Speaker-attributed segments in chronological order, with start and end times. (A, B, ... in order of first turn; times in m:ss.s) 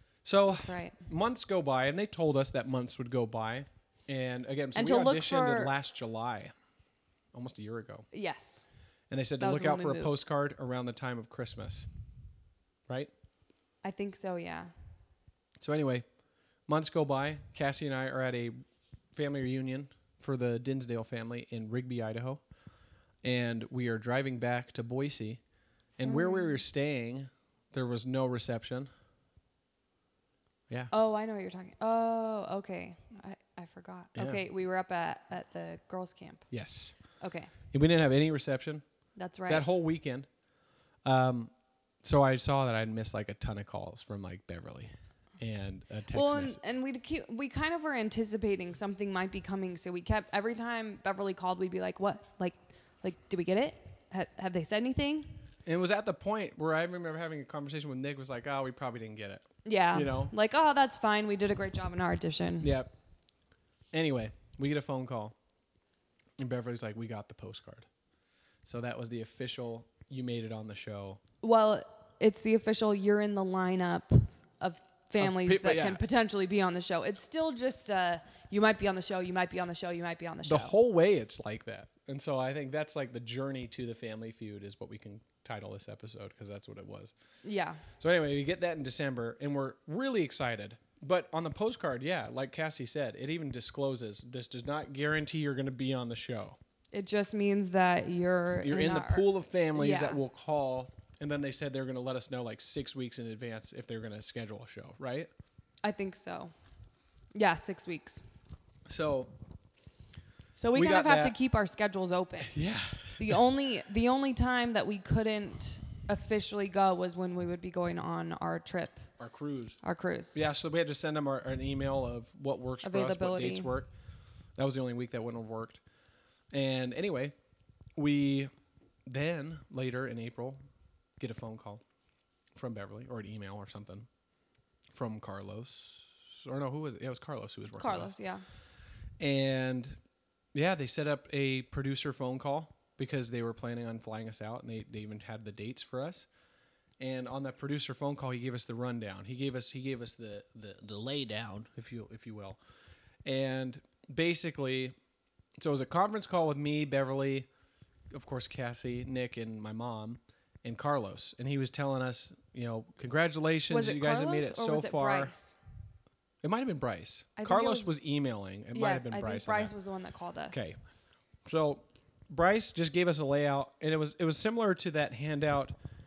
0:00.2-0:06.5 A
0:00.4-0:01.0 B
0:04.7-0:05.7 B
0:07.3-0:08.0 A
0:08.1-0:08.7 B
0:09.1-0:11.8 A
0:09.4-0:10.1 B
0:13.8-0:14.7 B
0:15.6-0:16.0 A
0:16.7-0:18.5 A
0:19.1-0:22.4 A
0:23.2-0:25.4 A
0:26.0-0:28.9 A
0:26.0-0:26.6 B
0:30.9-0:36.4 B
0:34.1-0:34.4 A
0:36.5-0:36.9 A
0:37.2-0:37.5 B
0:37.7-0:38.8 A
0:39.2-0:39.6 B
0:39.5-0:40.3 A
0:41.0-0:41.5 A
0:42.0-0:46.6 A
0:46.1-0:55.4 B
0:55.6-1:00.3 A
0:59.6-1:02.7 B
1:02.6-1:02.9 A
1:03.9-1:05.3 A
1:06.4-1:07.9 A
1:08.6-1:11.2 A
1:11.4-1:20.7 B
1:15.2-1:16.0 A
1:20.4-1:27.1 A
1:27.4-1:27.8 B
1:28.0-1:36.6 A
1:36.9-1:40.2 B
1:38.6-1:45.3 A
1:45.8-1:46.5 B
1:47.3-1:48.2 B
1:48.9-1:49.3 A
1:50.6-1:52.5 B
1:50.7-1:51.3 A
1:52.4-1:53.3 A
1:53.2-1:59.0 B
1:59.2-1:59.8 A
1:59.8-2:00.4 B
2:00.3-2:03.9 A
2:02.8-2:03.7 B
2:04.6-2:05.8 A
2:06.5-2:07.3 A
2:08.0-2:08.5 A
2:09.1-2:10.6 A
2:11.2-2:11.8 A
2:12.6-2:14.1 A
2:14.9-2:18.1 A
2:17.8-2:18.4 B
2:19.2-2:20.0 A
2:20.5-2:26.3 A
2:27.0-2:32.6 A
2:33.2-2:34.9 A
2:35.6-2:37.5 A
2:38.1-2:45.3 A
2:43.7-2:45.6 B
2:46.4-2:49.7 A
2:47.4-2:47.9 B
2:48.7-2:50.7 B
2:50.5-2:50.8 A
2:51.4-2:55.7 A